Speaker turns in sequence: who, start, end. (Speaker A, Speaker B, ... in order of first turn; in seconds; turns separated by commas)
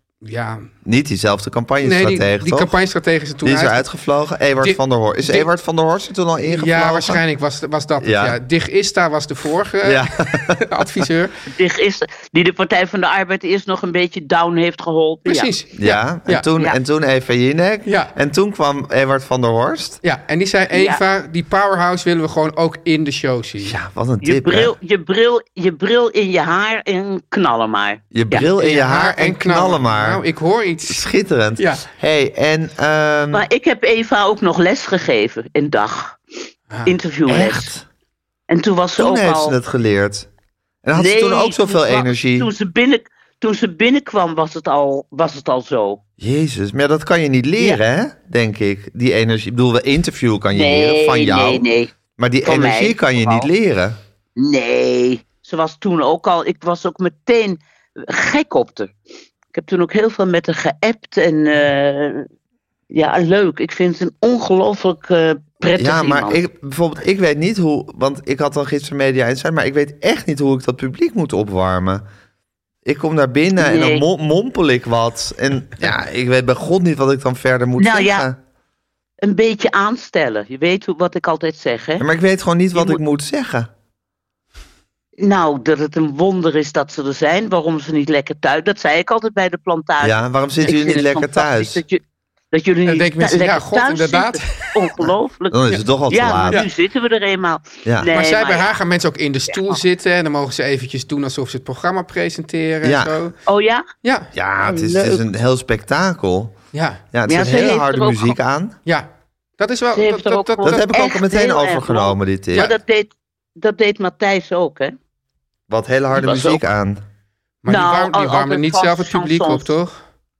Speaker A: 0.2-0.7, Speaker B: 0.8-2.7, Speaker A: 1.8-3.9, Speaker B: 3.4-7.2, Speaker A: 4.6-5.5, Speaker A: 6.4-11.4, Speaker B: 8.0-8.4, Speaker B: 9.8-10.9, Speaker C: 11.5-15.5, Speaker A: 15.2-16.5, Speaker B: 15.8-20.0, Speaker A: 17.9-18.1, Speaker A: 20.0-23.8, Speaker C: 20.7-21.0, Speaker B: 23.6-24.7, Speaker C: 24.2-28.4, Speaker B: 28.1-30.2, Speaker A: 28.3-31.1, Speaker B: 30.9-33.5, Speaker A: 31.6-31.8, Speaker C: 33.3-36.2, Speaker A: 36.7-37.0, Speaker C: 36.9-37.7, Speaker B: 37.3-37.8, Speaker C: 38.5-39.5, Speaker B: 39.0-40.3, Speaker B: 40.8-42.5, Speaker C: 41.0-46.0, Speaker B: 46.2-54.0, Speaker C: 50.5-51.9, Speaker C: 52.4-53.5, Speaker C: 54.4-58.9, Speaker C: 59.5-62.3, Speaker C: 62.9-66.4, Speaker B: 65.8-72.0, Speaker B: 72.8-78.4, Speaker C: 73.6-74.0, Speaker C: 77.8-78.3, Speaker C: 79.2-82.0, Speaker B: 82.0-83.7, Speaker C: 85.2-92.0, Speaker B: 90.0-91.8, Speaker C: 92.5-98.7, Speaker A: 92.8-94.8, Speaker B: 95.5-96.7, Speaker B: 97.9-98.1, Speaker A: 98.1-103.3, Speaker C: 99.5-99.8, Speaker B: 102.8-103.2, Speaker C: 103.5-103.9, Speaker A: 104.0-104.3, Speaker B: 104.3-106.5, Speaker C: 104.6-105.2, Speaker A: 106.7-107.0, Speaker B: 107.1-108.8, Speaker C: 107.3-108.4, Speaker A: 109.6-110.9, Speaker C: 109.9-115.0, Speaker B: 110.6-112.7, Speaker B: 115.7-117.0, Speaker C: 116.1-116.6, Speaker A: 117.6-120.0, Speaker C: 117.7-119.7